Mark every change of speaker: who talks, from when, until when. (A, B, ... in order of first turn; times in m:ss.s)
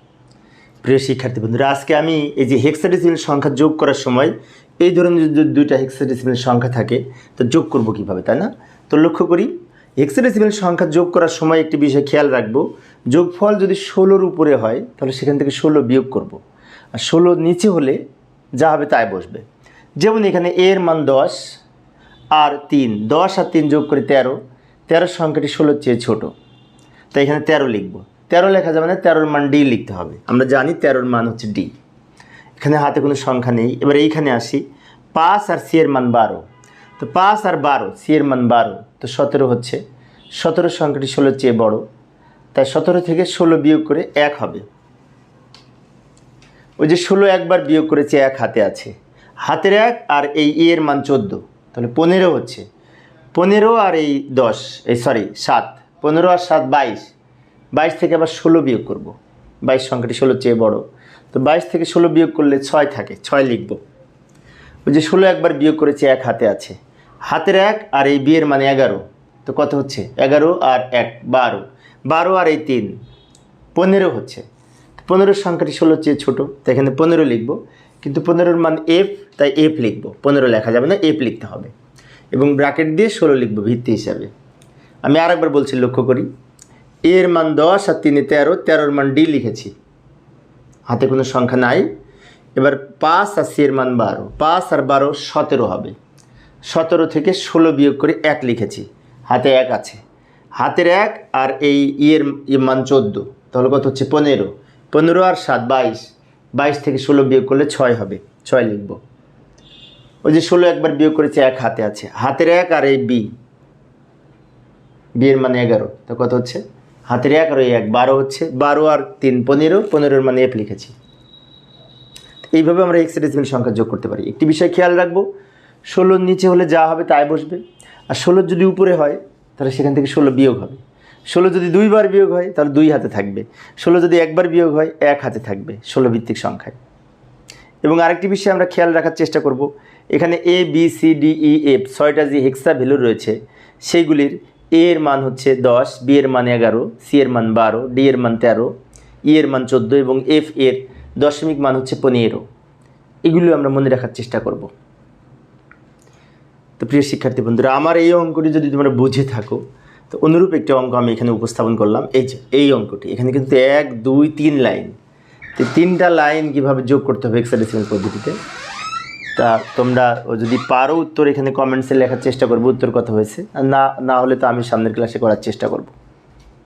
0:00.8-0:16.4 A
0:16.9-0:18.0 A
0:18.6-0:19.4 A
0:20.0-0:21.4 A
0:22.3-0:26.3 A
0:27.1-0:31.7 A
0:32.6-0:36.4 A
0:37.0-0:39.8 A
0:40.4-0:41.8 A
0:42.5-0:44.6 A
0:46.8-0:48.9 A
0:49.4-0:52.6 A
0:53.3-0:57.1 A
0:57.7-1:03.8 A
1:04.8-1:12.9 A
1:13.7-1:14.4 A
1:15.0-1:21.7 A
1:22.3-1:24.3 A
1:25.0-1:26.3 A
1:27.0-1:29.7 A
1:30.9-1:31.9 A
1:32.6-1:35.9 A
1:36.7-1:40.0 A
1:40.6-1:49.0 A
1:50.2-1:53.3 A
1:55.2-2:00.9 A
2:02.5-2:05.3 A
2:05.9-2:16.8 A
2:17.8-2:28.7 A
2:29.3-2:32.4 A
2:33.2-2:34.7 A
2:36.8-2:44.9 A
2:45.6-2:48.4 A
2:49.4-2:55.9 A